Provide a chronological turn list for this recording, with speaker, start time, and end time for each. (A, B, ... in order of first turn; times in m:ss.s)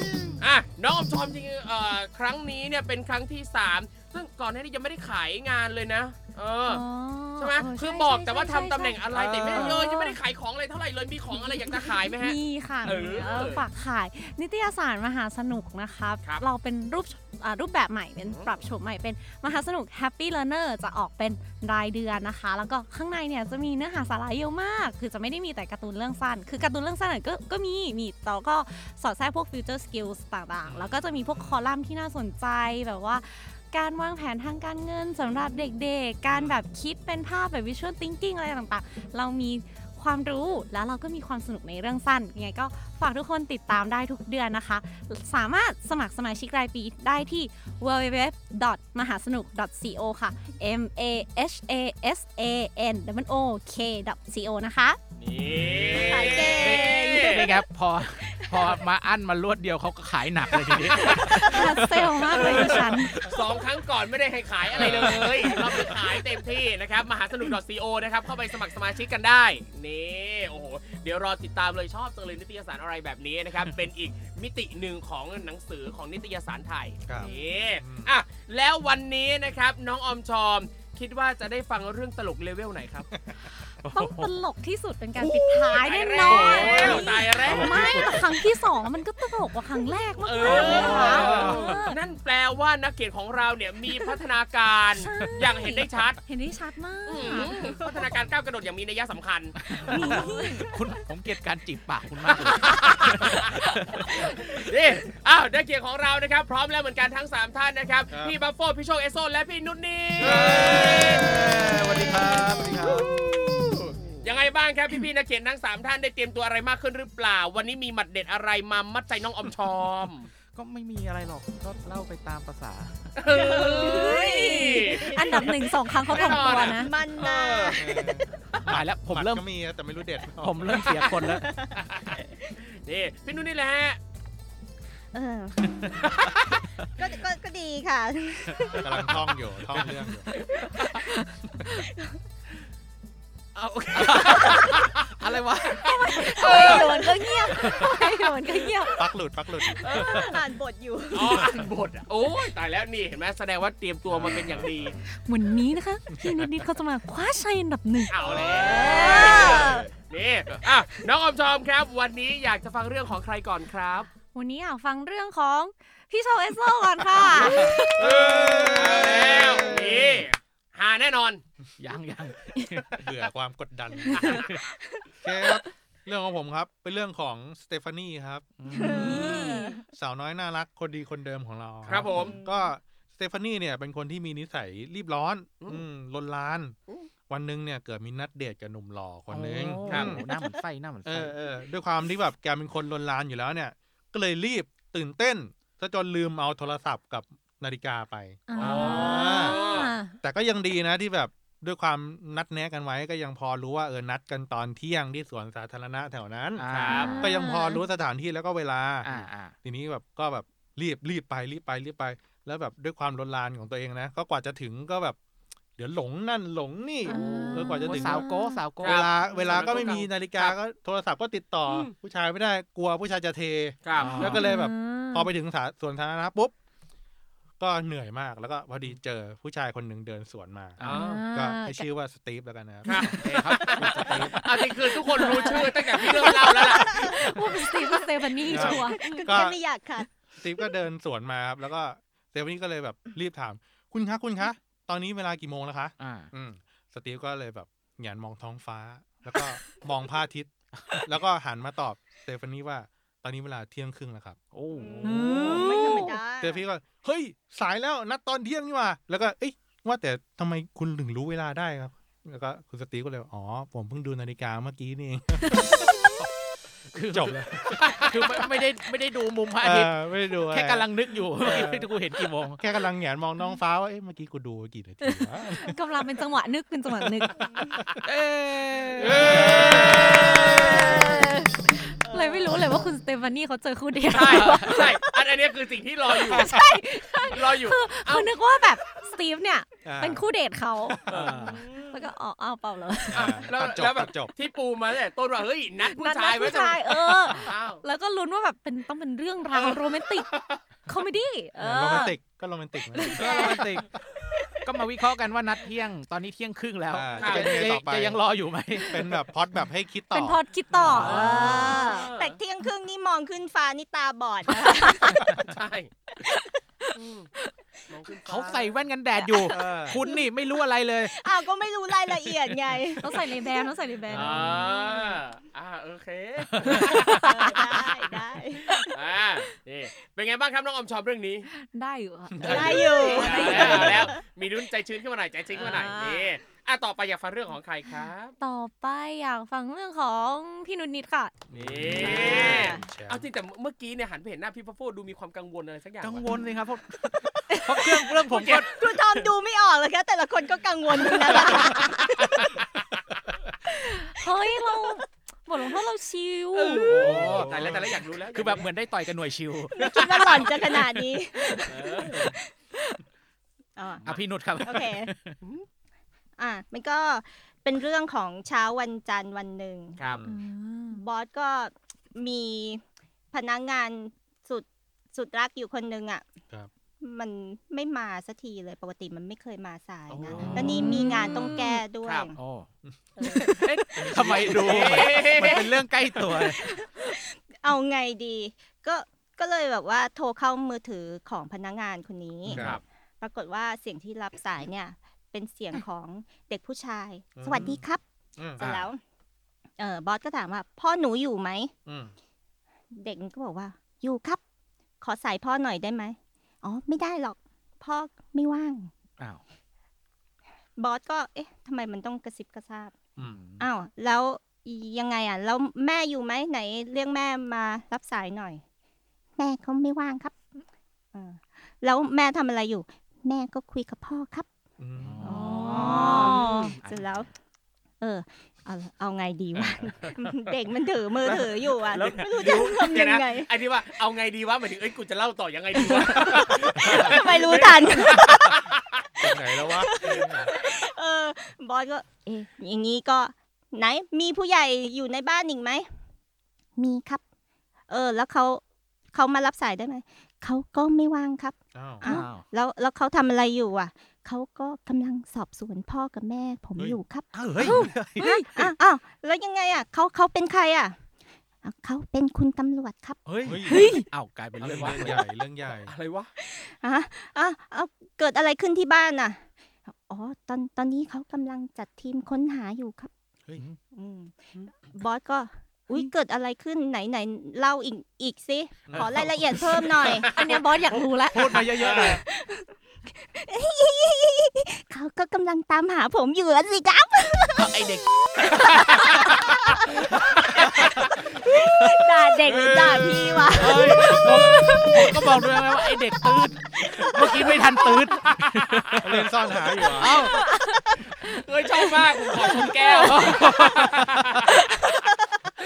0:00.4-0:06.8 A
0:06.6-0:10.2 B
0:07.4-0:13.6 A
0:09.1-0:09.8 C
0:11.3-0:55.0 B
0:18.2-0:18.5 A
0:30.7-0:31.6 D
0:36.3-0:36.6 D
0:55.2-0:57.5 A
0:55.8-0:56.2 D
0:56.0-0:57.6 E
0:56.3-1:02.4 C
0:58.2-0:58.7 E
1:00.7-1:01.4 E
1:00.9-1:01.2 A
1:01.3-1:03.2 B
1:02.3-1:23.1 A
1:04.8-1:05.1 D
1:04.8-1:06.0 C
1:17.0-1:18.1 D
1:23.8-1:24.3 C
1:23.9-1:32.0 B
1:25.2-1:28.2 A
1:26.2-1:28.2 D
1:27.5-1:27.7 C
1:30.2-1:36.2 A
1:30.4-1:31.8 C
1:30.8-1:31.6 D
1:34.9-1:37.8 B
1:37.0-1:39.6 A
1:37.5-1:38.2 E
1:39.6-1:44.5 C
1:39.7-1:40.7 B
1:40.1-1:40.4 E
1:42.2-2:00.3 A
1:48.1-1:48.4 D
1:50.2-1:53.1 C
1:50.2-1:51.1 D
1:52.2-1:53.0 D
2:00.5-2:03.0 C
2:03.2-2:07.8 A
2:03.3-2:08.5 E
2:03.7-2:06.9 B
2:07.8-2:11.0 D
2:08.7-2:09.4 C
2:10.4-2:11.4 C
2:10.7-2:12.0 A
2:11.3-2:12.2 E
2:12.6-2:14.0 A
2:15.1-2:16.0 E
2:17.0-2:19.4 E
2:18.8-2:20.3 D
2:20.3-2:21.0 A
2:21.8-2:22.2 E
2:23.5-2:25.0 A
2:23.9-2:25.9 C
2:25.8-2:29.0 B
2:25.8-2:27.9 A
2:26.4-2:26.8 E
2:27.6-2:28.1 C
2:28.5-2:28.9 A
2:28.9-2:30.2 D
2:29.8-2:31.5 E
2:29.8-2:30.2 A
2:30.0-2:30.3 C
2:31.1-2:35.0 A
2:34.1-2:35.0 D
2:35.1-2:39.6 B
2:36.2-2:36.5 D
2:38.1-2:44.1 A
2:38.2-2:38.6 D
2:38.2-2:39.9 E
2:44.3-2:48.1 B
2:47.3-2:51.4 A
2:47.6-2:50.3 D
2:51.8-2:53.1 C
2:53.0-2:54.5 D
2:54.2-2:54.6 C
2:55.2-2:58.4 D
2:58.6-2:59.4 C
2:58.7-2:59.8 B
2:58.7-2:59.8 E
2:59.9-3:06.8 D
3:01.8-3:02.4 A
3:02.0-3:02.7 E
3:07.3-3:10.2 D
3:09.3-3:11.3 C
3:09.8-3:10.2 A
3:11.0-3:19.6 D
3:18.5-3:20.2 B
3:18.6-3:19.9 A
3:20.2-3:35.2 D
3:26.6-3:27.2 C
3:26.7-3:27.2 A
3:26.9-3:27.8 B
3:29.0-3:29.5 C
3:35.8-3:38.3 D
3:37.0-3:38.6 B
3:37.1-3:39.0 C
3:38.8-3:40.6 A
3:38.8-3:46.5 D
3:39.2-3:40.0 B
3:41.6-3:41.9 A
3:43.8-3:44.3 A
3:44.0-3:44.5 C
3:44.2-3:45.3 B
3:47.6-3:54.4 D
3:50.8-3:51.1 C
3:50.8-3:51.2 A
3:50.9-3:51.9 B
3:52.8-3:57.1 A
3:53.1-3:54.3 C
3:53.5-3:54.0 B
3:53.6-3:54.2 E
3:55.1-3:59.3 B
3:55.2-3:57.2 E
3:57.3-3:57.6 D
3:58.4-4:00.7 E
3:58.4-3:59.6 D
4:00.4-4:14.4 D
4:06.0-4:06.3 C
4:14.5-4:15.3 C
4:15.0-4:26.3 D
4:15.0-4:16.2 B
4:15.3-4:16.6 E
4:25.5-4:26.1 B
4:26.9-4:27.4 C
4:27.1-4:28.1 D
4:27.9-4:32.6 C
4:29.6-4:30.9 D
4:31.4-4:31.9 D
4:32.6-4:35.8 D
4:35.0-4:37.6 B
4:38.0-4:39.8 C
4:39.0-4:40.7 D
4:39.2-4:45.0 B
4:39.4-4:41.2 E
4:42.0-4:42.9 E
4:44.1-4:46.6 A
4:44.2-4:44.9 C
4:46.3-4:53.4 B
4:47.2-4:48.3 A
4:49.8-4:50.2 D
4:50.9-4:51.5 D
4:51.1-4:51.5 A
4:51.1-4:51.6 C
4:51.3-4:52.1 E
4:53.1-4:54.3 D
4:53.2-4:57.8 A
4:55.8-5:00.3 B
5:00.8-5:02.1 B
5:01.6-5:03.2 D
5:02.9-5:03.6 B
5:03.1-5:03.9 C
5:03.2-5:03.6 E
5:04.6-5:09.0 C
5:06.9-5:08.2 D
5:07.1-5:07.6 A
5:08.8-5:11.1 D
5:10.1-5:12.0 B
5:10.8-5:11.8 C
5:10.9-5:12.4 A
5:11.0-5:15.2 E
5:14.8-5:15.1 B
5:15.5-5:15.9 A
5:16.9-5:17.3 A
5:17.9-5:18.8 A
5:18.2-5:21.1 C
5:19.2-5:20.2 E
5:19.5-5:20.0 D
5:21.1-5:23.6 E
5:23.0-5:24.4 B
5:24.1-5:24.5 D
5:24.1-5:27.8 A
5:24.5-5:25.2 E
5:26.6-5:27.5 C
5:26.9-5:28.8 E
5:28.9-5:31.5 A
5:31.5-5:34.1 B
5:32.4-5:32.7 D
5:32.4-5:34.2 E
5:32.5-5:38.3 A
5:33.2-5:34.1 D
5:35.6-5:36.3 B
5:38.4-5:41.3 B
5:41.5-5:43.3 D
5:41.5-5:46.3 A
5:41.9-5:42.8 E
5:46.0-5:48.7 C
5:47.2-5:52.6 E
5:48.3-5:48.6 A
5:53.7-5:56.9 B
5:56.5-5:58.7 A
5:56.8-5:57.7 C
5:56.9-5:58.0 D
5:58.3-6:00.8 C
5:59.7-6:03.0 E
5:59.8-6:00.8 A
6:01.7-6:02.3 A
6:03.8-6:04.1 E
6:04.0-6:05.3 C
6:04.6-6:05.1 E
6:06.4-6:10.0 E
6:10.0-6:10.2 A
6:10.0-6:10.4 D
6:10.2-6:11.0 B
6:10.9-6:16.3 E
6:17.0-6:22.4 E
6:20.1-6:20.7 D
6:20.3-6:21.8 C
6:20.6-6:21.8 B
6:22.0-6:22.3 A
6:22.4-6:22.7 C
6:22.8-6:23.2 D
6:23.2-6:24.4 E
6:23.2-6:26.6 C
6:24.0-6:25.2 D
6:24.5-6:25.6 A
6:25.2-6:32.7 E
6:32.5-6:32.8 D
6:32.5-6:32.8 A
6:33.2-6:38.0 E
6:37.4-6:37.8 D
6:38.4-6:38.9 D
6:38.6-6:39.0 E
6:39.8-6:41.7 E
6:41.8-6:42.1 D
6:43.0-6:44.4 E
6:45.0-6:48.9 E
6:50.8-6:58.6 E
6:53.2-6:53.5 D
6:53.2-6:53.6 C
6:59.4-7:00.3 E
7:01.1-7:04.5 E
7:04.8-7:05.3 D
7:05.0-7:07.2 C
7:05.2-7:07.3 E
7:05.2-7:06.7 B
7:08.0-7:13.5 E
7:09.5-7:10.3 C
7:11.2-7:12.7 C
7:12.3-7:18.8 A
7:15.7-7:18.6 E
7:19.2-7:20.5 D
7:19.2-7:25.9 E
7:26.8-7:27.2 E
7:27.9-7:41.0 E
7:31.7-7:32.2 D
7:32.0-7:32.4 C
7:37.3-7:38.6 C
7:37.6-7:38.6 B
7:41.6-7:43.3 E
7:43.2-7:45.2 C
7:43.4-7:43.8 D
7:43.6-7:44.0 B
7:44.6-7:46.3 A
7:44.9-7:45.9 D
7:46.4-7:53.1 E
7:53.9-8:00.3 E
7:58.8-7:59.6 D
8:00.1-8:00.4 A
8:00.2-8:01.7 B
8:00.9-8:02.2 C
8:01.8-8:02.2 A
8:01.8-8:09.4 E
8:07.6-8:09.0 C
8:10.6-8:15.4 E
8:12.5-8:12.8 C
8:13.5-8:19.3 C
8:16.8-8:18.1 E
8:19.0-8:20.2 D
8:19.8-8:20.3 E
8:19.9-8:20.4 C
8:20.1-8:21.4 B
8:21.2-8:24.5 A
8:22.5-8:23.4 B
8:23.0-8:24.5 C
8:24.5-8:25.3 E